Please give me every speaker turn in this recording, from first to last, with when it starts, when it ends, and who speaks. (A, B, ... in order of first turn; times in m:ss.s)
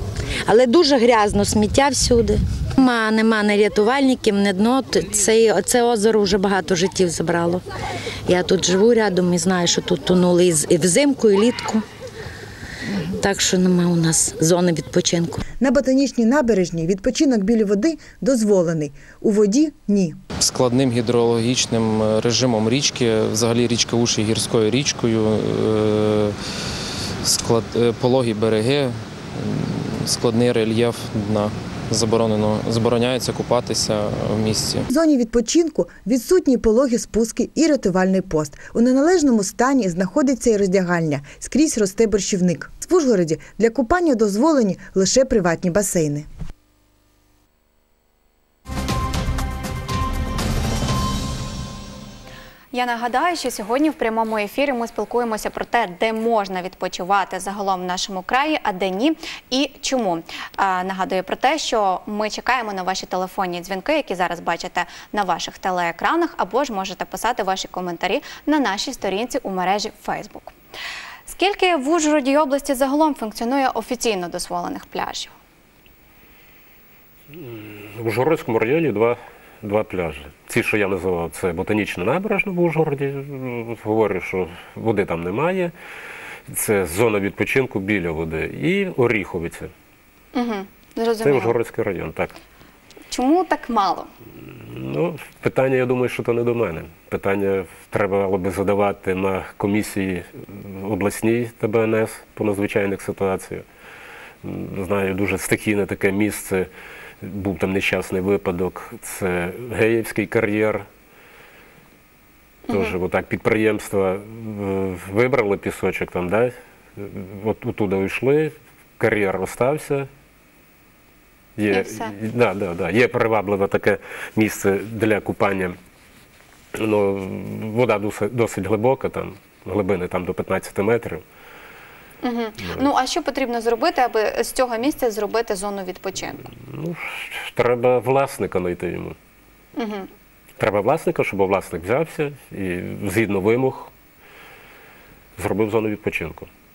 0:00.5-0:07.6 A
0:08.3-0:11.8 A
0:13.1-0:15.4 A
0:15.6-0:20.2 B
0:20.4-0:26.4 C
0:27.2-0:34.9 C
0:34.9-0:46.3 B
0:52.7-1:10.6 D
1:11.3-1:15.3 D
1:17.3-1:25.7 E
1:26.5-1:29.7 E
1:30.3-1:31.6 D
1:31.2-1:32.4 E
1:33.1-1:34.1 D
1:34.6-1:43.6 E
1:44.4-1:46.7 E
1:47.2-1:50.9 E
1:52.7-1:53.0 D
1:52.7-2:00.1 E
2:01.6-2:05.8 E
2:01.7-2:02.1 D
2:06.7-2:11.2 E
2:12.2-2:16.5 D
2:12.6-2:12.9 E
2:16.6-2:19.2 E
2:19.8-2:20.1 D
2:20.6-2:23.9 E
2:25.4-2:26.5 E